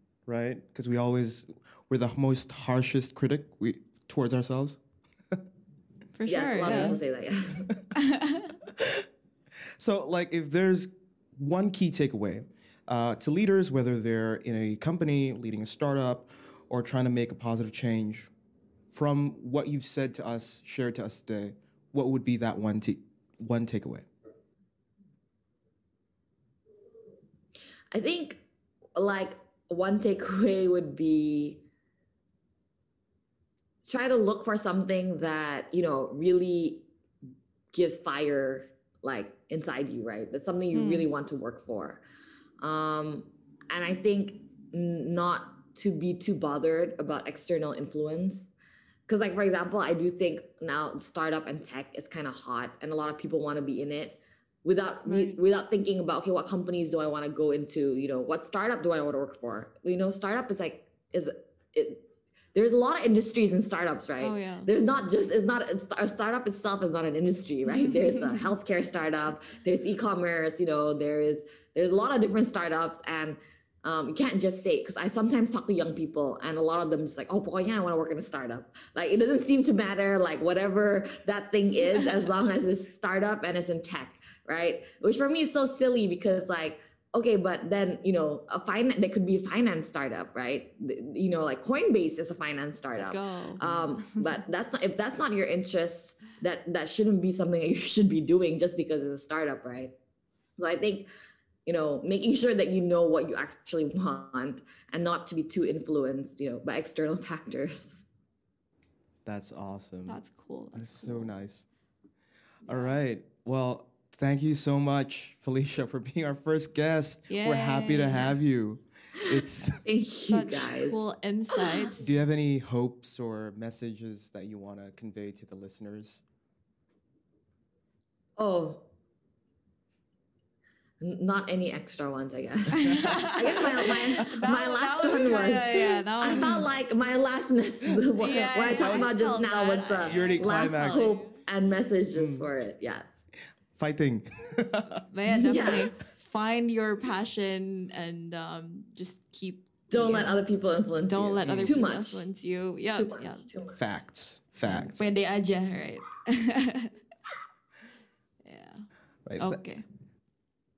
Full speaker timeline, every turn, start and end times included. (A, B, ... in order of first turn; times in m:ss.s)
0:00.2-0:04.8 A
0:06.2-0:07.0 B
0:06.3-0:07.7 C
0:06.6-0:06.9 A
0:08.0-0:08.5 B
0:08.7-0:09.0 A
0:09.8-0:18.3 A
0:18.9-0:24.0 A
0:27.9-0:28.4 C
0:29.0-0:31.6 C
0:33.8-0:36.8 C
0:37.7-0:42.0 C
0:40.7-0:41.0 B
0:42.6-0:48.5 C
0:49.1-1:02.0 C
0:55.0-0:55.4 B
1:02.5-1:39.9 C
1:04.2-1:04.7 B
1:33.0-1:34.3 B
1:40.6-1:41.1 C
1:41.6-1:48.0 C
1:49.2-1:50.2 A
1:50.1-1:51.3 B
1:50.7-1:51.6 A
1:52.6-1:53.0 B
1:52.6-1:59.8 A
1:57.3-1:58.3 B
1:59.8-2:01.0 C
2:00.3-2:02.0 B
2:02.0-2:06.2 A
2:08.4-2:08.8 C
2:11.0-2:23.2 C
2:12.8-2:16.7 B
2:18.2-2:21.4 B
2:18.6-2:19.1 A
2:20.1-2:21.2 A
2:22.1-2:22.5 A
2:23.7-2:25.0 A
2:25.1-2:30.3 B
2:25.3-2:26.1 C
2:29.9-2:32.2 C
2:31.0-2:33.4 B
2:31.4-2:31.8 A
2:32.9-2:33.8 C
2:33.8-2:35.1 A
2:34.6-2:36.9 B
2:38.4-2:38.9 B
2:39.2-2:39.6 A
2:39.4-2:39.8 B